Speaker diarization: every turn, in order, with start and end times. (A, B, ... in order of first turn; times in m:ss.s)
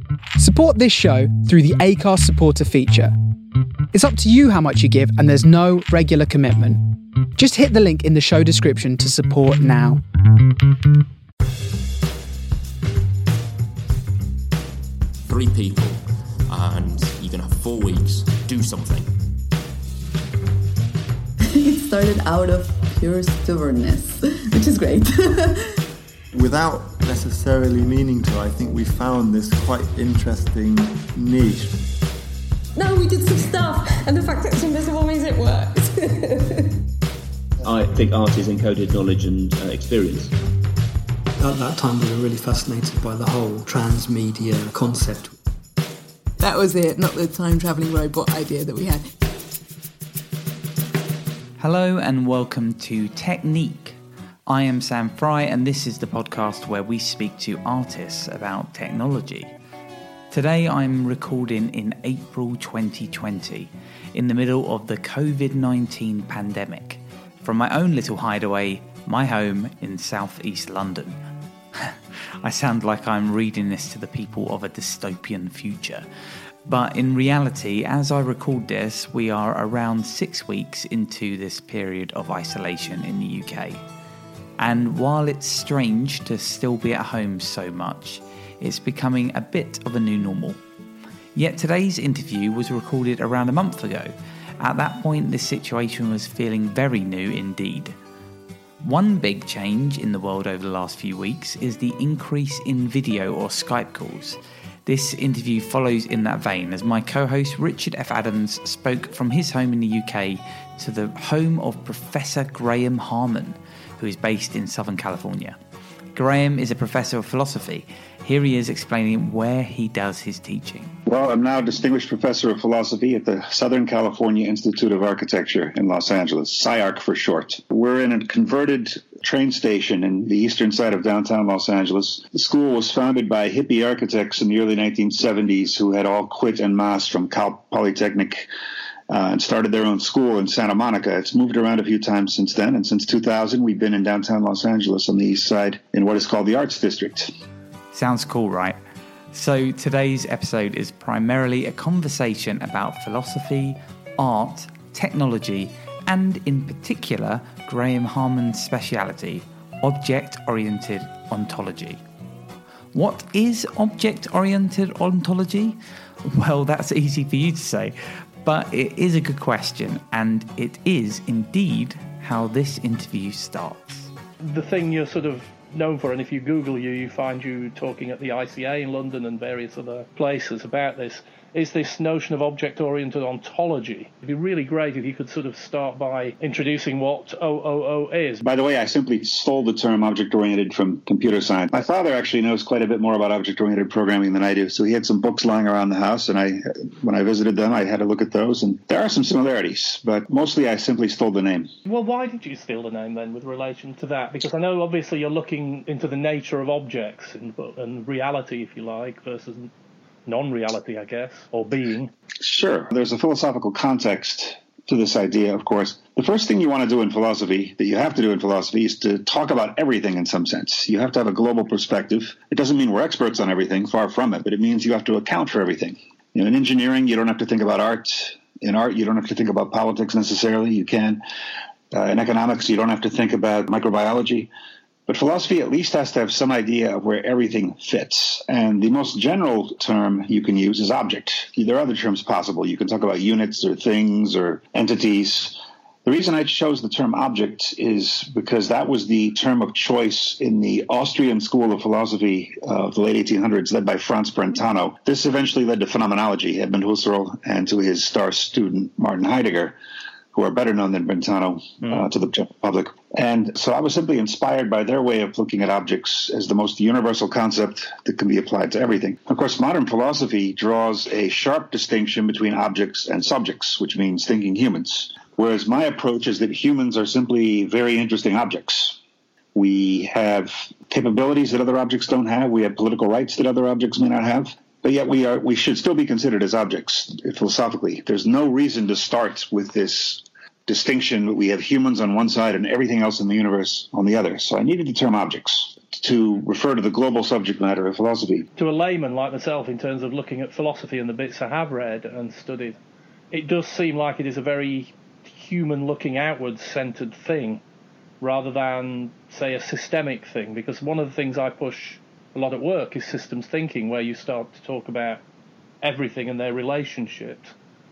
0:00.4-0:03.1 A
0:03.9-0:06.8 A
0:07.4-0:10.0 A
0:15.2-0:19.1 B
0:21.5-0:25.8 C
0:26.3-0:31.8 D
0:32.7-0:36.7 E
0:37.6-0:40.3 F
0:41.4-0:45.3 G
0:46.4-0:49.1 C
0:51.6-0:59.5 H
1:00.3-1:11.2 H
1:11.8-1:16.0 H
1:16.6-1:23.8 H
1:24.6-1:30.6 H
1:31.3-1:38.0 H
1:38.8-1:55.6 H
1:56.1-2:00.9 H
2:01.0-2:18.5 I
2:19.1-2:27.3 I
2:27.9-2:28.8 H
2:29.3-2:42.0 H
2:42.9-2:54.1 H
2:54.4-3:08.4 J
3:08.4-3:21.7 I
3:21.8-3:29.7 J
3:30.2-3:32.1 J
3:32.4-3:51.2 I
3:51.9-3:54.5 I
3:55.1-4:19.8 I
4:20.3-4:39.0 I
4:39.5-4:58.5 I
4:58.6-5:02.8 J
5:03.3-5:07.6 J
5:08.2-5:15.2 J
5:15.8-5:17.5 J